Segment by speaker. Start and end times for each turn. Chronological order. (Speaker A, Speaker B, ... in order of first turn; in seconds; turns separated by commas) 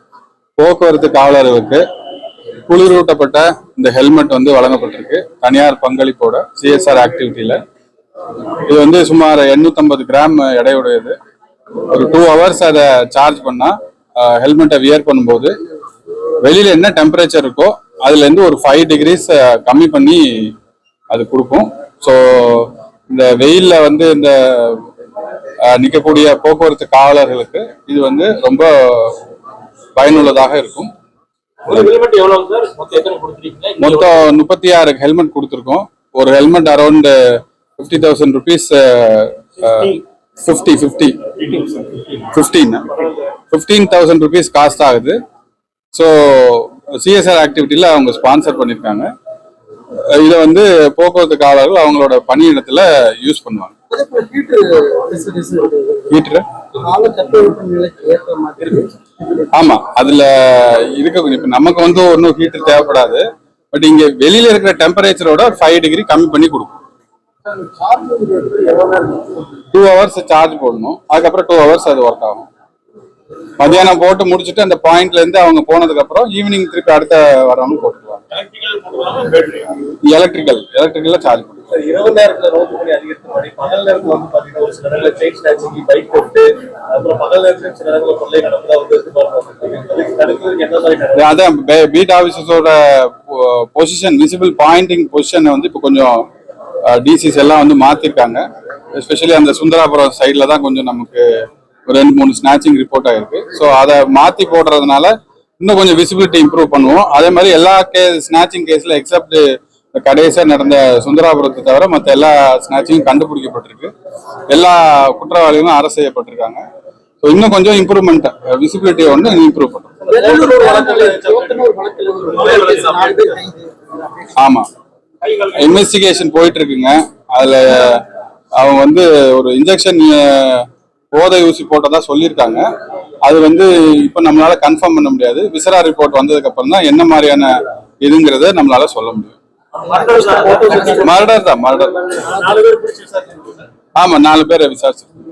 Speaker A: 0.6-1.9, Speaker A: 2.7-7.6, Speaker A: 8.7-11.2, Speaker A: 11.9-15.6, Speaker A: 16.4-20.5, Speaker A: 21.1-24.9, Speaker A: 25.6-29.2, Speaker A: 29.9-30.9, Speaker B: 31.7-34.3, Speaker A: 33.8-41.3, Speaker B: 39.6-40.0, Speaker B: 41.4-42.2, Speaker A: 42.3-42.9, Speaker A: 43.5-45.2, Speaker A: 45.9-49.1, Speaker A: 50.1-53.7, Speaker C: 53.9-56.1, Speaker A: 56.1-56.4, Speaker C: 56.8-59.5, Speaker A: 59.5-66.7, Speaker C: 67.5-69.5, Speaker A: 69.7-72.5, Speaker A: 73.6-78.2, Speaker B: 78.3-79.7, Speaker A: 80.0-81.7, Speaker B: 81.7-91.2, Speaker A: 91.2-96.2, Speaker A: 96.8-98.4, Speaker A: 98.9-113.9, Speaker A: 114.5-116.6, Speaker A: 117.2-119.9, Speaker B: 120.0-121.7, Speaker C: 120.1-124.3, Speaker B: 122.3-123.4, Speaker A: 124.4-124.7, Speaker B: 125.2-125.8, Speaker A: 125.5-128.0, Speaker A: 128.6-132.7, Speaker A: 133.2-139.4, Speaker B: 139.8-141.1, Speaker C: 139.9-141.1, Speaker A: 140.9-142.1, Speaker B: 142.1-143.7, Speaker A: 144.0-145.1